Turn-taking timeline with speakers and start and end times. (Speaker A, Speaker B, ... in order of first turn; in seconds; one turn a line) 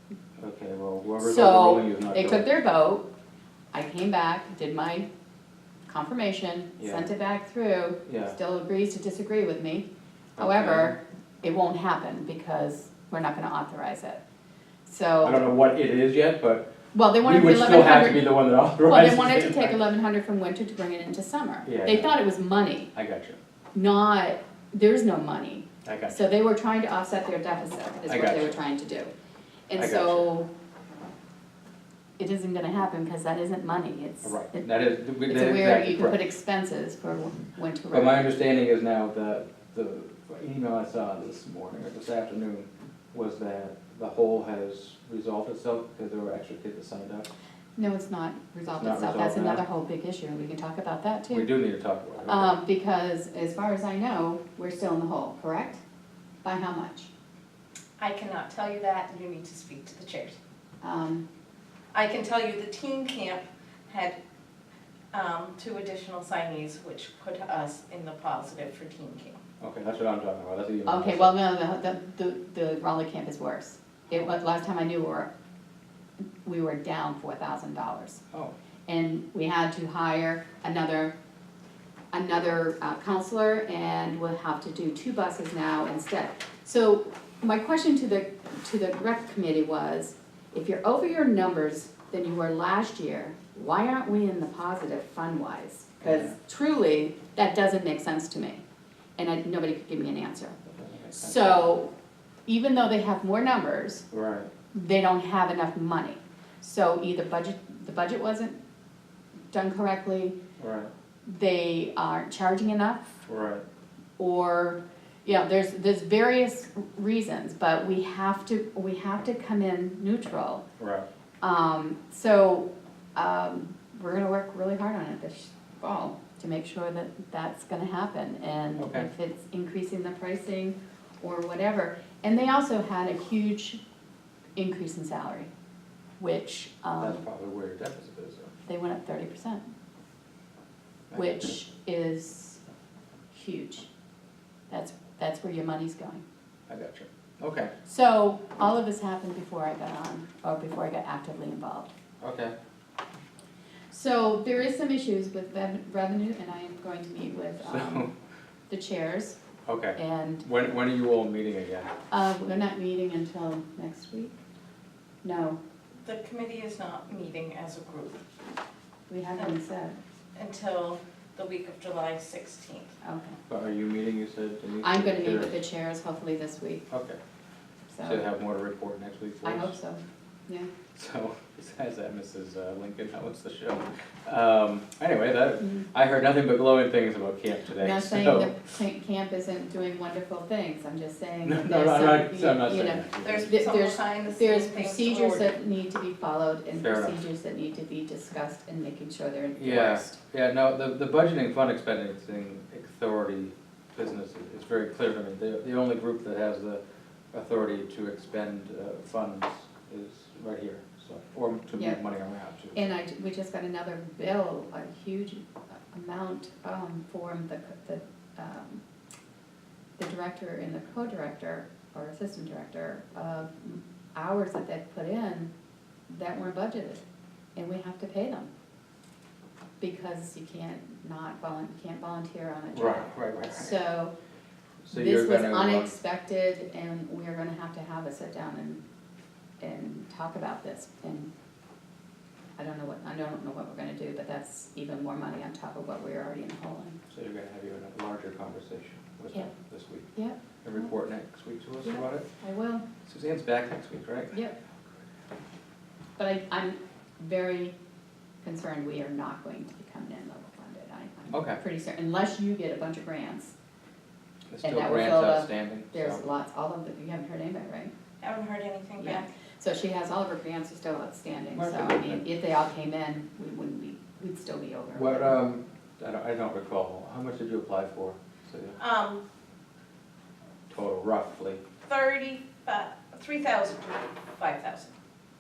Speaker A: 0.4-2.5
Speaker B: 1.2-3.1
Speaker B: 3.7-5.1
Speaker B: 5.9-14.2
Speaker A: 6.8-7.1
Speaker A: 8.1-8.3
Speaker A: 10.4-11.0
Speaker B: 14.9-15.4
Speaker A: 15.2-19.8
Speaker B: 16.9-22.9
Speaker A: 21.6-22.2
Speaker A: 22.9-23.4
Speaker B: 23.7-29.1
Speaker A: 25.9-26.2
Speaker A: 28.1-28.6
Speaker B: 29.7-30.5
Speaker A: 29.8-30.3
Speaker B: 32.2-34.6
Speaker A: 34.2-36.2
Speaker B: 35.2-38.3
Speaker A: 37.9-47.3
Speaker B: 47.8-51.5
Speaker A: 48.7-49.6
Speaker A: 51.3-52.6
Speaker B: 52.3-55.8
Speaker B: 56.4-57.1
Speaker C: 58.0-60.4
Speaker B: 60.8-61.2
Speaker C: 61.9-64.2
Speaker C: 65.1-69.4
Speaker A: 69.6-71.3
Speaker B: 70.8-75.3
Speaker B: 76.4-78.2
Speaker B: 78.9-81.1
Speaker B: 82.1-98.6
Speaker A: 96.0-96.3
Speaker B: 99.2-100.6
Speaker A: 100.7-101.7
Speaker B: 101.1-101.9
Speaker B: 102.5-104.0
Speaker A: 104.1-104.5
Speaker B: 104.7-108.6
Speaker B: 109.5-110.4
Speaker A: 110.6-110.9
Speaker B: 111.2-113.1
Speaker A: 113.3-113.6
Speaker B: 114.2-120.6
Speaker A: 120.8-121.1
Speaker B: 121.4-133.8
Speaker A: 128.8-129.1
Speaker B: 134.6-135.5
Speaker B: 136.2-137.2
Speaker A: 137.0-138.5
Speaker B: 138.7-139.7
Speaker A: 141.1-141.6
Speaker B: 141.1-142.6
Speaker B: 143.3-143.9
Speaker B: 144.7-146.2
Speaker A: 146.7-147.7
Speaker B: 147.8-151.9
Speaker A: 152.2-152.5
Speaker B: 153.9-158.1
Speaker A: 157.6-158.1
Speaker B: 158.7-159.4
Speaker A: 159.7-161.9
Speaker B: 160.0-160.4
Speaker B: 162.1-164.3
Speaker B: 165.2-165.6
Speaker C: 166.0-168.2
Speaker B: 169.1-170.0
Speaker C: 170.3-172.9
Speaker B: 173.0-173.4
Speaker A: 173.5-175.6
Speaker B: 174.8-176.8
Speaker A: 176.9-177.2
Speaker B: 177.9-178.2
Speaker A: 178.0-179.8
Speaker B: 179.4-180.7
Speaker A: 180.9-188.5
Speaker B: 187.7-200.2
Speaker A: 191.4-193.5
Speaker C: 193.2-195.5
Speaker A: 196.8-197.2
Speaker A: 199.6-206.8
Speaker A: 207.3-213.0
Speaker B: 211.7-212.0
Speaker B: 212.8-218.8
Speaker B: 220.0-225.5
Speaker B: 226.1-227.0
Speaker B: 227.6-228.5
Speaker B: 229.8-234.1
Speaker A: 232.7-233.8
Speaker A: 234.8-235.9
Speaker B: 234.9-238.8
Speaker B: 239.6-241.3
Speaker B: 242.6-247.0
Speaker A: 247.1-250.1
Speaker B: 250.1-250.9
Speaker A: 250.6-252.2
Speaker B: 251.8-252.8
Speaker A: 253.0-254.4
Speaker B: 256.2-257.8
Speaker B: 258.4-263.5
Speaker A: 261.3-261.6
Speaker A: 264.5-266.2
Speaker B: 264.6-267.9
Speaker C: 268.2-269.2
Speaker B: 269.0-275.4
Speaker A: 271.5-272.2
Speaker A: 274.9-278.8
Speaker C: 278.8-279.2
Speaker A: 280.7-281.6
Speaker C: 281.8-284.9